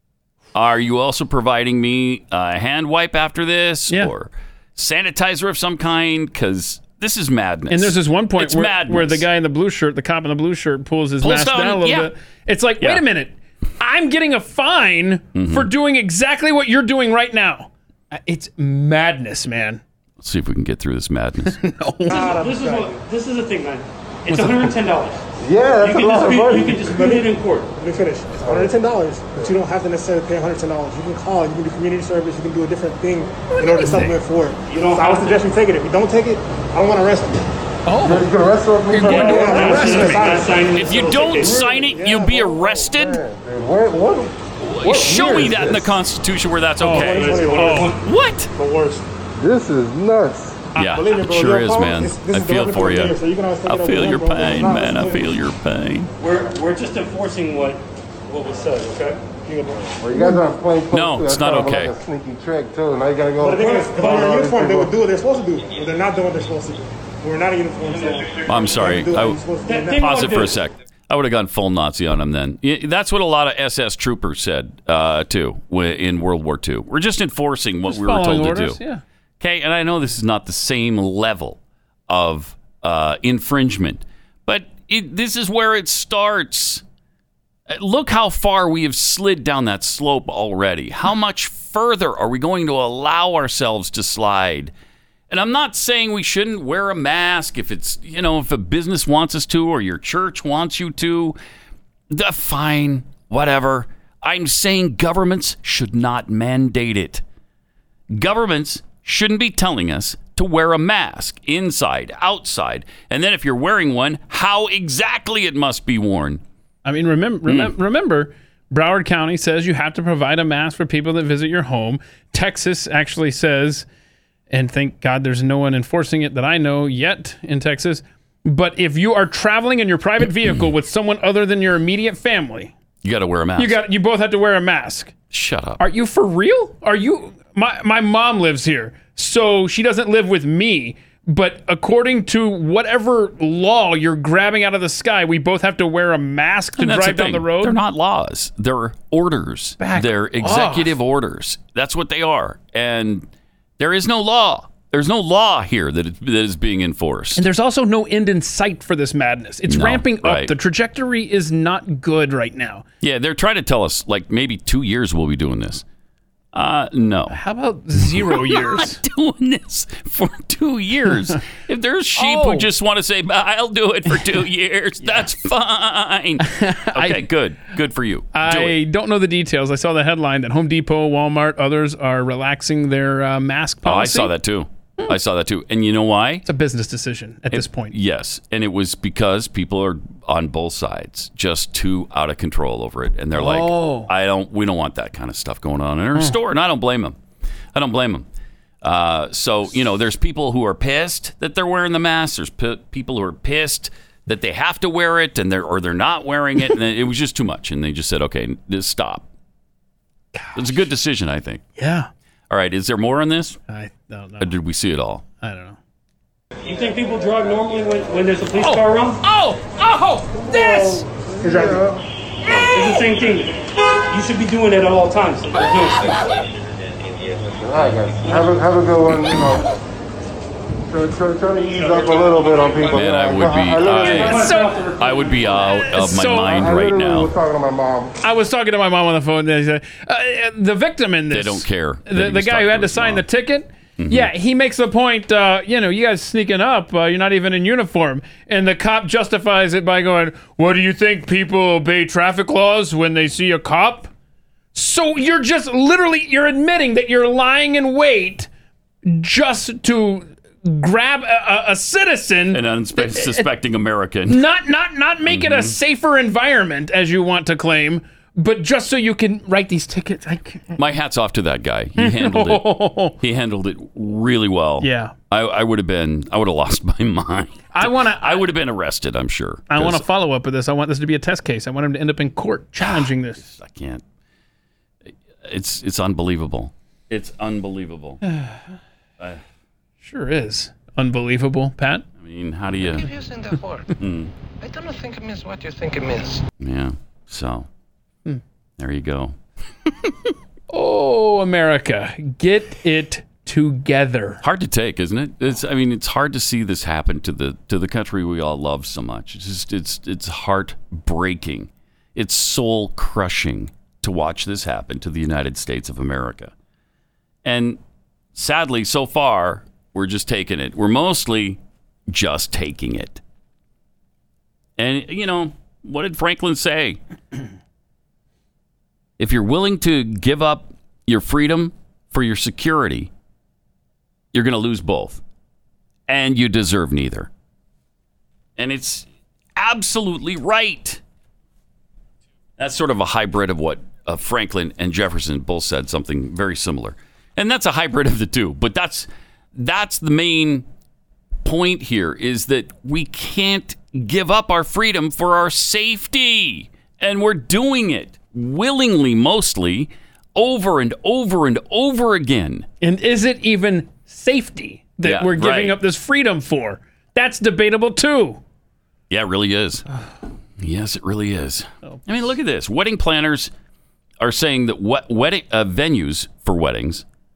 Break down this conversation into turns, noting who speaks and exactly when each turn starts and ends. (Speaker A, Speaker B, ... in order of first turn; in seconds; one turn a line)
Speaker A: 0.5-9.3
Speaker B: 7.7-19.8
Speaker A: 11.2-12.1
Speaker A: 15.3-15.7
Speaker A: 20.2-21.6
Speaker B: 21.5-22.4
Speaker C: 22.1-25.2
Speaker D: 22.1-23.0
Speaker B: 24.3-24.6
Speaker E: 25.4-27.1
Speaker C: 25.8-27.7
Speaker D: 26.5-37.4
Speaker E: 28.4-28.7
Speaker B: 33.5-34.2
Speaker C: 34.7-35.4
Speaker B: 37.9-38.3
Speaker E: 38.0-40.4
Speaker B: 38.9-40.5
Speaker D: 39.0-40.7
Speaker C: 39.0-41.6
Speaker A: 40.7-43.2
Speaker E: 41.4-45.9
Speaker D: 41.8-42.5
Speaker A: 44.6-48.5
Speaker B: 46.8-47.9
Speaker D: 46.9-48.0
Speaker C: 47.2-48.0
Speaker D: 48.5-49.0
Speaker E: 49.4-50.7
Speaker A: 50.8-56.1
Speaker D: 50.8-55.3
Speaker C: 56.2-59.2
Speaker D: 59.4-60.4
Speaker E: 60.0-64.9
Speaker A: 60.9-62.0
Speaker D: 63.4-70.4
Speaker A: 68.5-78.8
Speaker C: 69.7-70.6
Speaker B: 77.9-79.0
Speaker A: 79.4-86.8
Speaker A: 87.7-94.7
Speaker A: 95.3-101.4
Speaker A: 102.1-107.2
Speaker A: 108.1-116.4
Speaker B: 116.8-123.9
Speaker A: 117.5-117.7
Speaker B: 124.5-132.7
Speaker A: 133.0-133.8
Speaker B: 133.6-135.1
Speaker A: 135.3-135.8
Speaker B: 135.8-147.8
Speaker A: 146.8-153.3
Speaker B: 149.8-151.0
Speaker A: 153.8-157.4
Speaker B: 157.4-162.8
Speaker A: 159.7-160.5
Speaker A: 163.0-165.8
Speaker A: 166.5-167.4
Speaker B: 167.3-169.0
Speaker A: 168.0-178.8
Speaker B: 172.2-172.7
Speaker B: 175.0-175.3
Speaker B: 176.4-177.3
Speaker B: 178.3-184.3
Speaker A: 183.8-186.4
Speaker B: 186.4-187.9
Speaker A: 187.5-197.2
Speaker B: 193.3-194.1
Speaker A: 197.7-198.3
Speaker A: 198.8-209.3
Speaker B: 210.3-210.8
Speaker A: 210.6-211.6
Speaker B: 211.8-212.1
Speaker A: 212.5-213.6
Speaker B: 213.7-214.5
Speaker A: 214.4-215.2
Speaker B: 215.4-215.8
Speaker C: 216.6-219.2
Speaker B: 218.6-221.1
Speaker E: 220.3-222.9
Speaker D: 221.4-221.8
Speaker C: 222.7-226.4
Speaker E: 227.4-229.7
Speaker E: 230.9-234.4
Speaker A: 232.9-237.3
Speaker B: 233.9-234.9
Speaker C: 234.0-235.5
Speaker B: 235.6-236.7
Speaker E: 236.5-238.2
Speaker B: 238.2-254.1
Speaker A: 241.3-243.2
Speaker A: 244.0-244.3
Speaker B: 254.7-258.5
Speaker B: 259.1-263.5
Speaker A: 262.5-264.4
Speaker B: 264.3-270.8
Speaker A: 265.3-265.8
Speaker A: 270.8-280.0
Speaker B: 272.0-273.2
Speaker B: 274.8-275.1
Speaker B: 277.7-278.5
Speaker B: 279.7-283.4
Speaker A: 282.8-284.0
Speaker A: 285.4-288.2
Speaker B: 288.2-288.6
Speaker B: 290.0-292.1
Speaker A: 292.2-293.1
Speaker F: 292.8-293.9
Speaker A: 294.0-294.3
Speaker F: 294.6-296.4
Speaker A: 296.6-297.7
Speaker A: 298.8-299.4
Speaker B: 300.7-304.4
Speaker A: 304.4-316.5
Speaker A: 317.4-317.8
Speaker A: 318.4-323.2
Speaker A: 324.8-327.0
Speaker A: 329.2-333.1
Speaker A: 334.3-335.2
Speaker A: 336.1-337.3
Speaker A: 338.6-341.0
Speaker A: 342.6-350.7
Speaker A: 351.4-362.7
Speaker B: 362.8-368.4
Speaker A: 365.0-365.8
Speaker A: 369.1-369.9
Speaker A: 370.6-373.5
Speaker A: 374.2-377.1